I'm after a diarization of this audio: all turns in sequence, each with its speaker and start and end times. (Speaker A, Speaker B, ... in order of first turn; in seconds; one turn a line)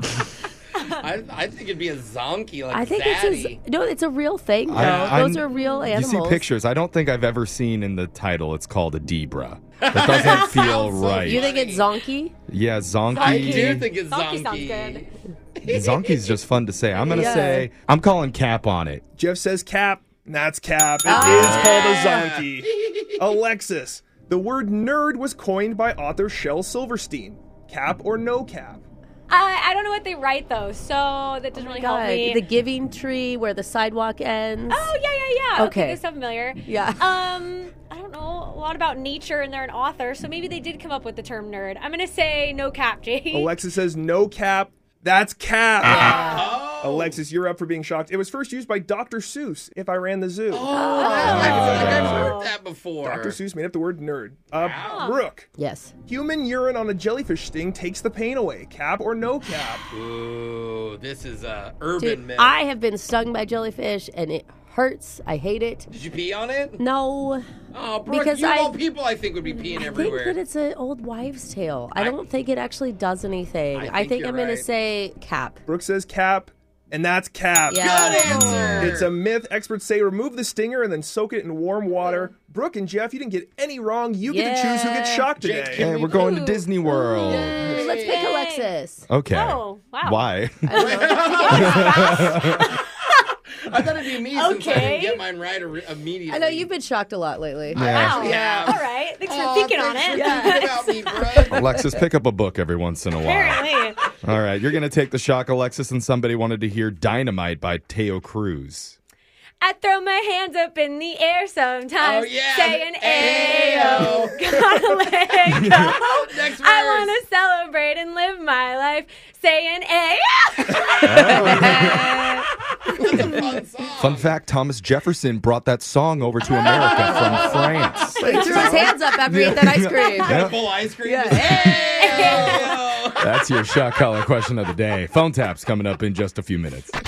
Speaker A: 0.8-3.6
Speaker B: 2.7-6.5
Speaker C: 4.7-11.5
Speaker A: 4.7-5.4
Speaker D: 5.6-5.9
Speaker A: 9.8-11.9
Speaker D: 10.3-10.6
Speaker B: 11.1-12.3
Speaker C: 12.5-13.9
Speaker D: 13.1-15.1
Speaker A: 13.1-16.2
Speaker C: 15.7-19.0
Speaker D: 17.0-17.3
Speaker B: 17.1-17.7
Speaker E: 19.2-28.8
Speaker B: 21.1-21.9
Speaker A: 21.2-23.3
Speaker D: 29.3-32.4
Speaker B: 31.5-34.9
Speaker D: 34.7-43.6
Speaker B: 35.5-36.0
Speaker B: 36.6-37.2
Speaker E: 43.3-50.8
Speaker B: 45.9-46.5
Speaker A: 46.0-47.2
Speaker A: 50.5-53.4
Speaker B: 50.7-51.7
Speaker D: 51.1-52.6
Speaker E: 51.4-52.4
Speaker E: 53.0-55.5
Speaker A: 54.6-55.1
Speaker D: 54.9-55.3
Speaker B: 55.5-56.0
Speaker E: 56.0-59.9
Speaker A: 59.9-62.6
Speaker B: 62.0-65.9
Speaker A: 65.9-66.8
Speaker B: 66.8-67.5
Speaker A: 67.7-70.4
Speaker B: 68.1-68.8
Speaker B: 69.7-75.6
Speaker A: 73.7-74.7
Speaker E: 75.7-78.0
Speaker B: 77.7-78.5
Speaker A: 77.7-79.1
Speaker C: 78.3-79.0
Speaker D: 78.3-78.7
Speaker E: 78.7-86.0
Speaker D: 82.0-82.3
Speaker B: 84.3-85.3
Speaker A: 85.4-86.4
Speaker C: 85.8-87.6
Speaker D: 86.0-87.2
Speaker A: 87.2-88.3
Speaker B: 87.4-89.1
Speaker D: 88.0-88.7
Speaker C: 89.1-91.0
Speaker D: 89.3-93.1
Speaker B: 90.7-92.1
Speaker A: 90.8-92.6
Speaker C: 91.5-92.7
Speaker A: 93.6-96.7
Speaker D: 94.2-95.3
Speaker B: 96.3-98.8
Speaker A: 97.7-101.6
Speaker C: 97.8-98.4
Speaker D: 97.9-101.4
Speaker B: 100.1-102.0
Speaker C: 101.5-103.7
Speaker D: 103.1-104.1
Speaker C: 104.2-109.0
Speaker D: 109.6-122.3
Speaker A: 112.0-114.4
Speaker A: 115.3-117.2
Speaker C: 121.0-122.3
Speaker B: 121.1-122.4
Speaker A: 121.2-121.5
Speaker A: 122.9-124.3
Speaker C: 124.0-130.6
Speaker A: 126.6-128.9
Speaker B: 127.0-131.9
Speaker A: 129.9-133.3
Speaker C: 131.4-131.9
Speaker D: 132.0-132.8
Speaker C: 133.2-136.9